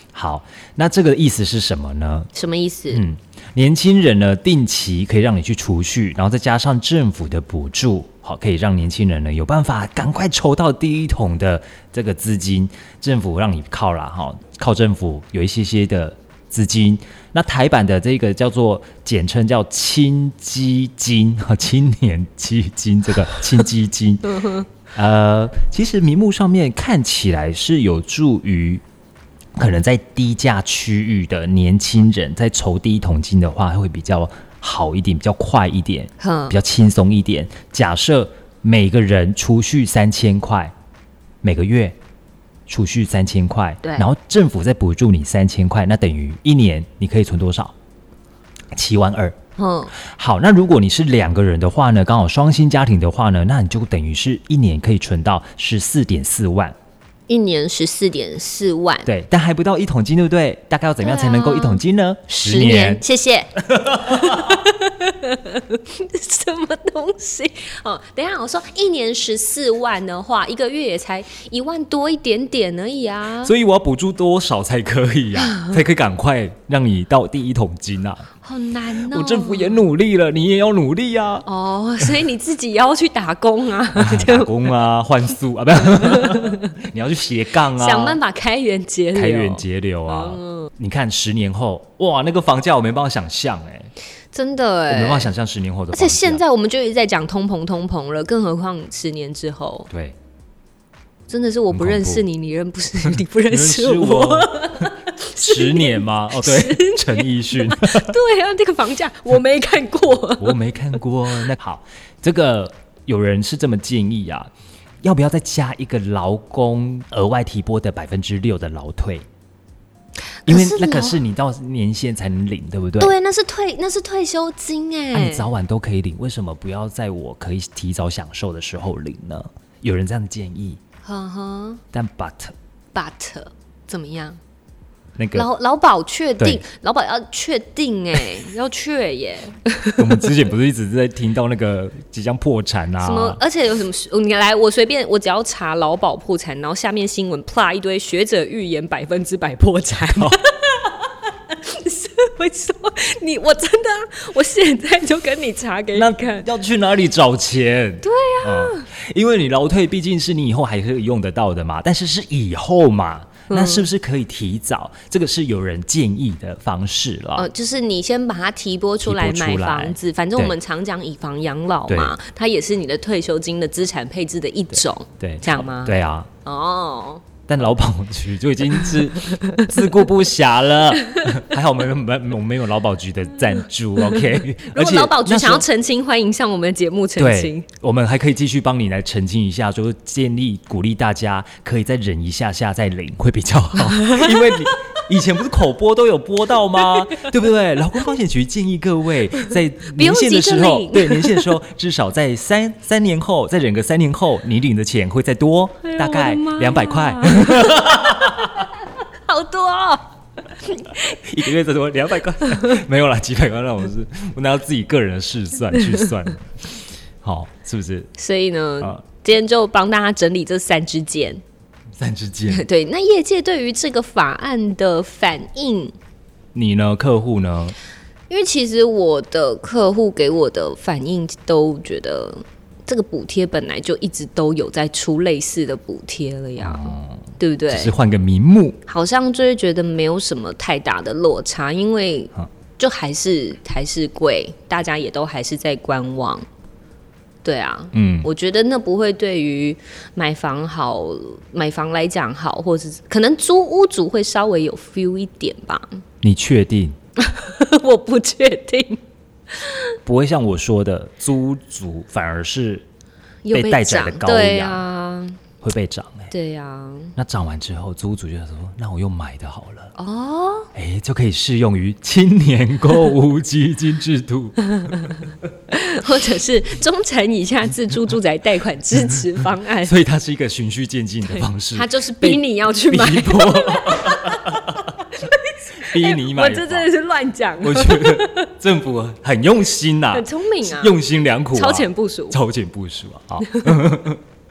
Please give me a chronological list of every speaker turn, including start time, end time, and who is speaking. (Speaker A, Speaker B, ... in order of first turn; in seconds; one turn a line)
Speaker A: 0.1-2.3
Speaker B: 2.3-3.0
Speaker A: 2.9-28.8
Speaker B: 24.4-24.6
Speaker A: 29.6-40.7
Speaker B: 36.2-36.6
Speaker A: 41.4-42.0
Speaker A: 42.7-47.8
Speaker B: 43.8-44.1
Speaker A: 48.8-49.4
Speaker B: 49.6-49.9
Speaker A: 49.9-56.8
Speaker B: 57.3-59.1
Speaker A: 59.1-63.0
Speaker B: 61.0-73.5
Speaker A: 63.7-64.5
Speaker A: 73.4-78.3
Speaker B: 75.4-75.8
Speaker B: 78.4-79.8
Speaker A: 79.1-81.5
Speaker B: 81.5-84.6
Speaker A: 84.0-88.2
Speaker B: 85.8-86.8
Speaker B: 87.7-90.7
Speaker A: 89.1-93.9
Speaker B: 94.3-95.3
Speaker A: 94.9-96.4
Speaker B: 95.9-99.9
Speaker A: 99.9-100.2
Speaker B: 101.3-110.6
Speaker A: 101.7-102.2
Speaker A: 103.1-108.2
Speaker A: 110.4-114.5
Speaker A: 115.0-119.3
Speaker B: 120.5-121.2
Speaker A: 120.5-123.1
Speaker B: 123.0-125.5
Speaker A: 125.1-130.8
Speaker B: 131.0-131.8
Speaker A: 131.9-132.5
Speaker B: 132.9-134.4
Speaker A: 135.2-135.5
Speaker B: 135.3-140.2
Speaker A: 140.0-143.4
Speaker B: 143.0-156.5
Speaker A: 150.1-150.4
Speaker A: 155.9-167.5
Speaker B: 158.0-158.9
Speaker B: 163.5-163.9
Speaker B: 167.4-177.2
Speaker A: 169.0-170.6
Speaker A: 171.9-172.2
Speaker A: 175.2-176.3
Speaker A: 177.5-185.7
Speaker B: 179.4-179.7
Speaker B: 184.7-187.7
Speaker A: 187.2-208.5
Speaker B: 193.9-194.7
Speaker B: 196.8-197.3
Speaker B: 199.4-201.5
Speaker B: 205.8-210.1
Speaker B: 210.7-211.2
Speaker A: 211.1-218.1
Speaker B: 218.2-221.4
Speaker A: 222.0-222.7
Speaker B: 222.5-225.9
Speaker A: 226.5-227.8
Speaker B: 228.3-237.9
Speaker A: 236.6-238.8
Speaker B: 238.9-246.5
Speaker B: 247.4-256.0
Speaker A: 247.9-248.3
Speaker A: 256.2-257.0
Speaker B: 257.2-259.8
Speaker A: 260.1-262.9
Speaker B: 263.4-265.4
Speaker A: 263.5-264.9
Speaker A: 265.6-266.3
Speaker B: 266.3-267.1
Speaker A: 267.2-269.9
Speaker B: 270.0-270.7
Speaker A: 270.8-275.2
Speaker B: 274.7-275.2
Speaker B: 275.7-280.0
Speaker A: 279.8-284.9
Speaker B: 281.3-288.5
Speaker A: 285.8-286.9
Speaker A: 287.6-294.2
Speaker B: 290.1-291.0
Speaker B: 291.5-292.4
Speaker B: 293.4-293.8